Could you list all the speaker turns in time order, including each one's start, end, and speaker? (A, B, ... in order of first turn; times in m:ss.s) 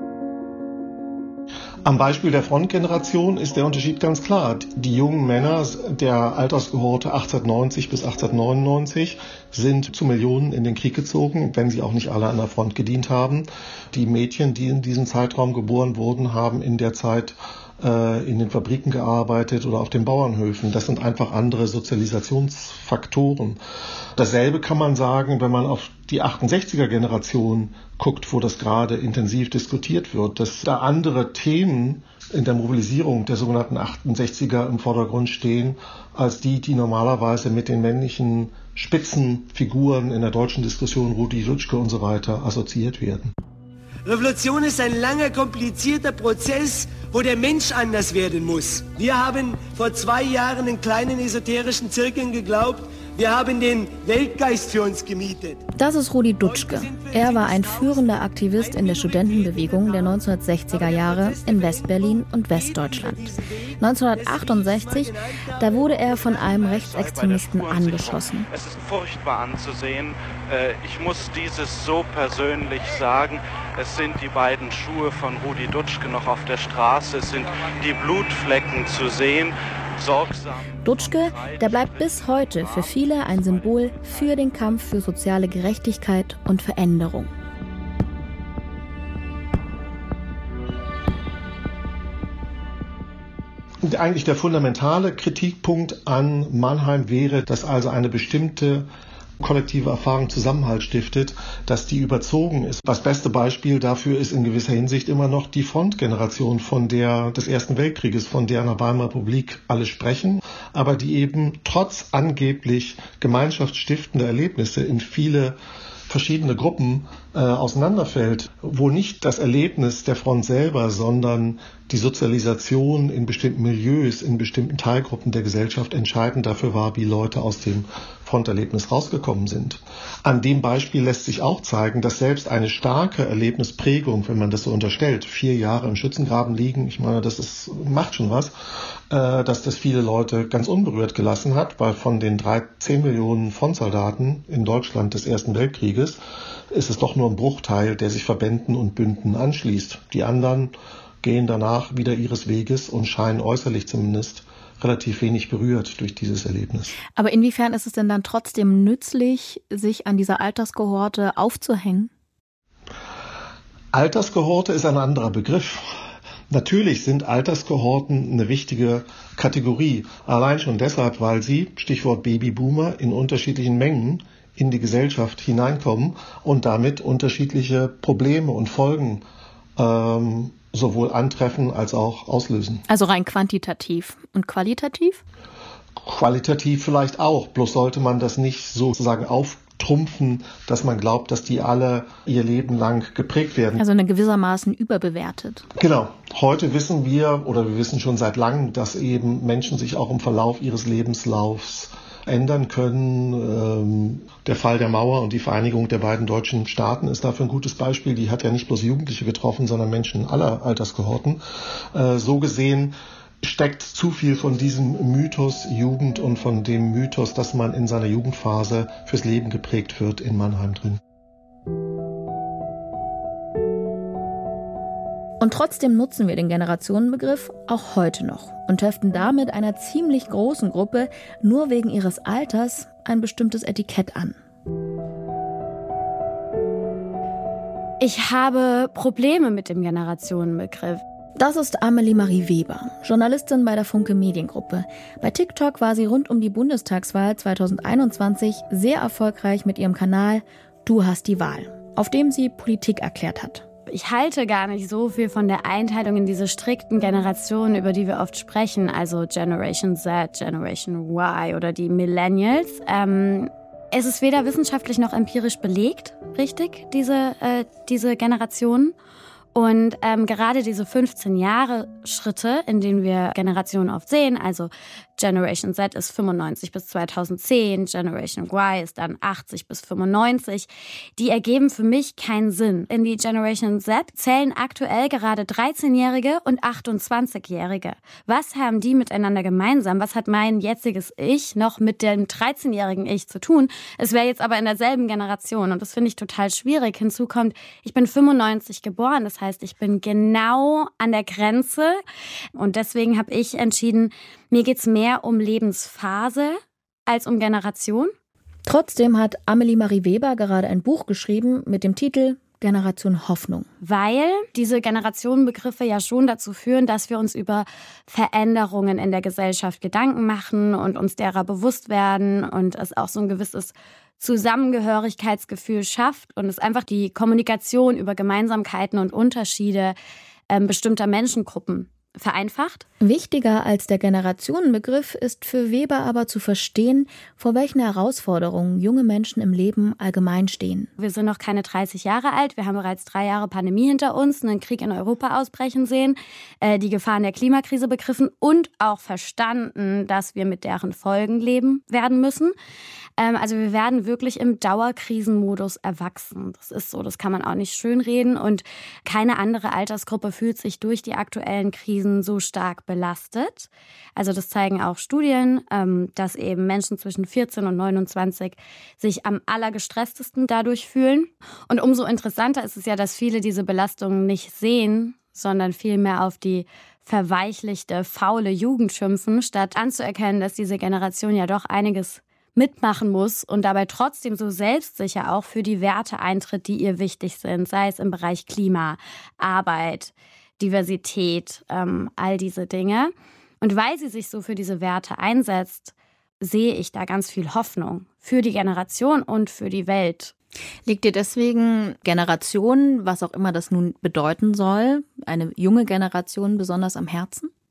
0:01.8-0:23.6 A
0:24.2-0:43.3 A
0:44.0-0:55.6 B
0:55.8-1:08.5 C
0:56.4-1:05.9 B
1:06.1-1:25.0 D
1:20.8-1:27.3 C
1:33.8-1:38.9 A
1:39.4-1:55.6 A
1:56.1-2:18.5 A
2:19.1-2:26.2 A
2:26.7-2:36.9 A
2:37.1-2:42.1 C
2:43.9-2:45.9 A
2:46.5-2:59.2 A
2:59.8-3:02.8 A
3:02.9-3:05.2 C
3:06.0-3:13.8 A
3:13.8-3:15.7 C
3:15.8-3:31.4 A
3:31.9-3:41.0 A
3:45.4-3:54.4 C
3:58.0-4:01.0 E
4:01.4-4:13.6 C
4:13.9-4:28.9 E
4:29.6-5:02.0 E
5:02.6-5:08.1 E
5:08.7-5:13.7 C
5:13.8-5:29.9 E
5:30.5-5:32.9 E
5:33.0-5:40.9 C
5:41.0-5:52.5 E
5:53.2-6:40.3 E
6:40.9-6:47.5 C